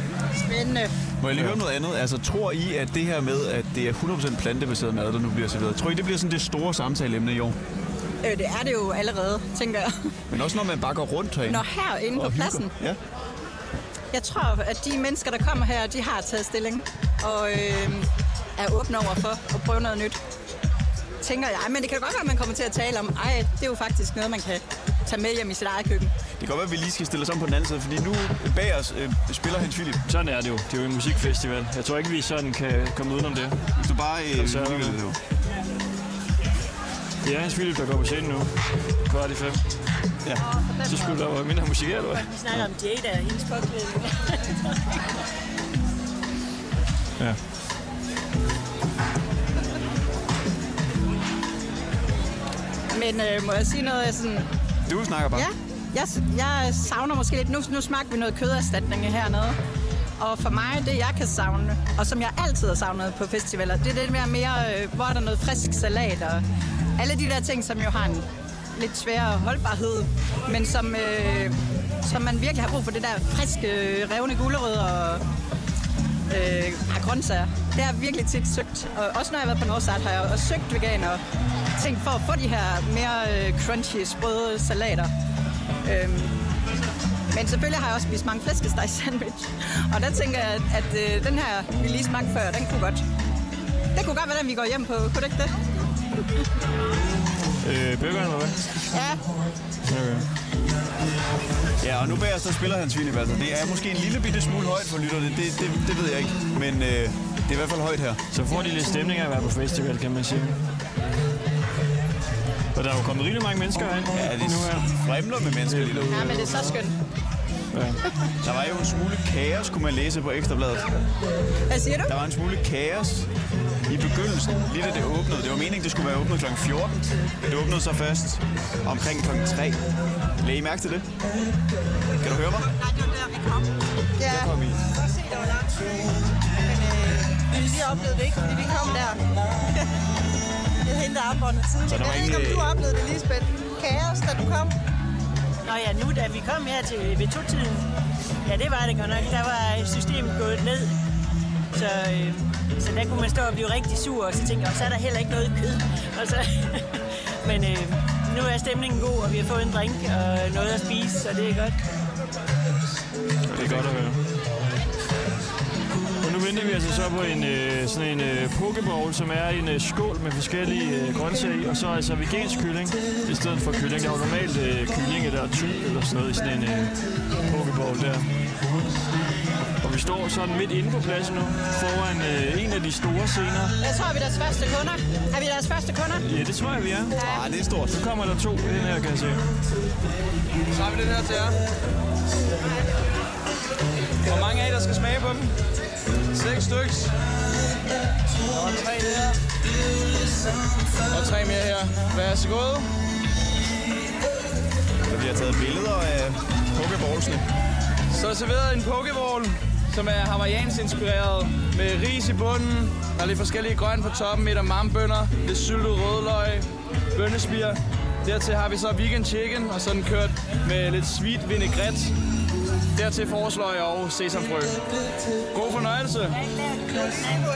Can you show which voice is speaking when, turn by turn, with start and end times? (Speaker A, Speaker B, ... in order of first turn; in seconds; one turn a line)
Speaker A: 0.4-0.9
Speaker B: 1.2-7.6
Speaker C: 1.3-1.6
Speaker A: 8.2-10.1
Speaker B: 10.3-11.6
Speaker A: 11.4-12.7
Speaker B: 12.1-13.0
Speaker A: 14.1-20.2
Speaker A: 21.2-26.1
Speaker B: 26.4-30.0
Speaker C: 30.1-33.6
Speaker B: 33.8-35.2
Speaker C: 34.3-35.0
Speaker C: 37.2-38.5
Speaker C: 39.0-39.6
Speaker C: 40.8-42.6
Speaker D: 42.1-45.0
Speaker A: 52.9-54.5
Speaker B: 54.9-55.5
Speaker A: 55.3-59.6
Speaker A: 60.2-66.4
Speaker A: 67.0-75.2
Speaker A: 76.3-81.2
Speaker A: 81.8-85.1
Speaker A: 85.8-86.4
Speaker A: 87.3-93.0
Speaker A: 93.9-95.5
Speaker C: 97.6-98.6
Speaker A: 98.9-99.2
Speaker C: 99.9-100.2
Speaker B: 101.8-108.2
Speaker C: 108.3-110.6
Speaker C: 112.7-114.9
Speaker B: 114.1-116.3
Speaker C: 115.6-116.8
Speaker A: 116.1-117.0
Speaker C: 117.7-118.0
Speaker B: 118.4-121.0
Speaker A: 121.7-122.1
Speaker B: 122.0-123.3
Speaker B: 123.9-129.8
Speaker B: 130.4-131.1
Speaker B: 132.2-132.7
Speaker A: 132.8-133.6
Speaker E: 134.2-135.8
Speaker B: 134.2-134.8
Speaker E: 136.6-139.2
Speaker E: 140.8-144.7
Speaker B: 141.9-142.7
Speaker D: 145.6-147.9
Speaker D: 148.4-150.9
Speaker D: 151.7-161.8
Speaker C: 163.5-164.2
Speaker B: 163.5-164.0
Speaker C: 166.2-178.3
Speaker C: 179.8-183.8
Speaker A: 183.8-186.2
Speaker C: 186.2-187.2
Speaker A: 187.1-187.5
Speaker B: 187.2-188.0
Speaker C: 187.9-189.4
Speaker F: 190.7-191.6
Speaker F: 194.2-195.5
Speaker F: 196.3-197.1
Speaker F: 198.5-199.3
Speaker F: 201.1-202.9
Speaker B: 205.1-207.5
Speaker F: 208.1-222.1
Speaker F: 222.9-224.8
Speaker F: 225.5-226.4